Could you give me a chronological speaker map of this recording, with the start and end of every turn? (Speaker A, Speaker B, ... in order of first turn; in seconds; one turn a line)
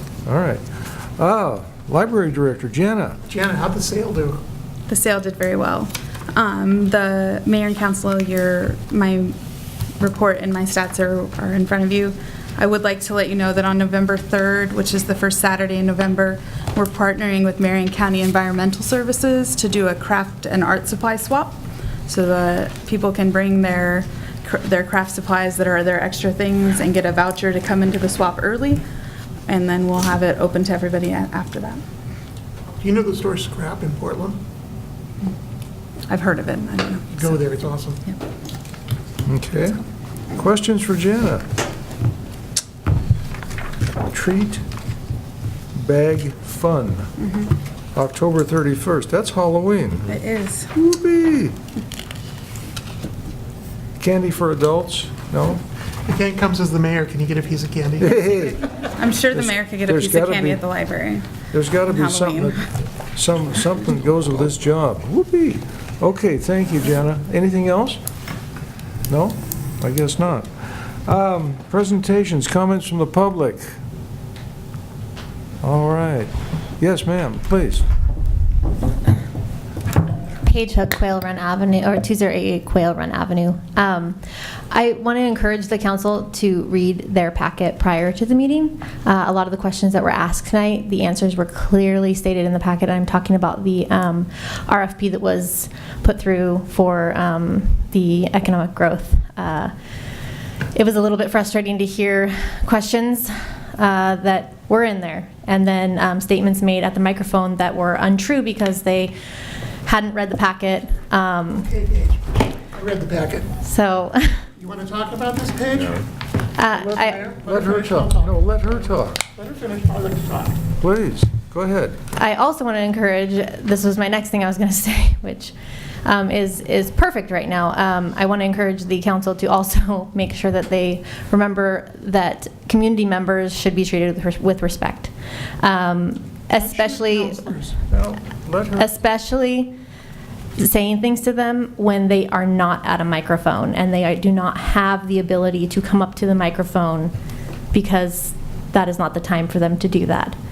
Speaker A: 0.2-3.2
Speaker B: 3.3-4.4
Speaker C: 4.9-9.3
Speaker C: 10.0-21.6
Speaker C: 22.1-28.8
Speaker C: 29.5-31.8
Speaker B: 32.8-34.4
Speaker C: 36.1-37.5
Speaker B: 37.1-38.0
Speaker A: 39.3-39.8
Speaker A: 40.3-41.5
Speaker A: 44.1-44.6
Speaker A: 45.7-47.1
Speaker A: 48.0-50.2
Speaker C: 50.1-50.7
Speaker A: 50.8-51.6
Speaker A: 54.0-55.6
Speaker B: 56.1-58.2
Speaker A: 58.0-58.7
Speaker C: 58.7-61.2
Speaker A: 59.3-60.6
Speaker A: 61.5-68.0
Speaker C: 61.8-62.6
Speaker A: 69.1-73.7
Speaker A: 75.6-77.8
Speaker D: 80.5-84.2
Speaker D: 84.7-99.7
Speaker D: 100.8-109.1
Speaker D: 109.9-111.7
Speaker B: 111.6-113.6
Speaker D: 113.6-114.4
Speaker B: 114.6-116.0
Speaker D: 116.6-117.4
Speaker B: 116.7-118.4
Speaker A: 117.4-119.2
Speaker B: 119.3-120.6
Speaker A: 120.8-122.0
Speaker D: 122.2-125.5
Speaker D: 126.0-137.4
Speaker B: 136.6-137.8
Speaker A: 137.9-138.9
Speaker D: 138.8-139.7
Speaker D: 140.6-147.1
Speaker D: 147.7-150.3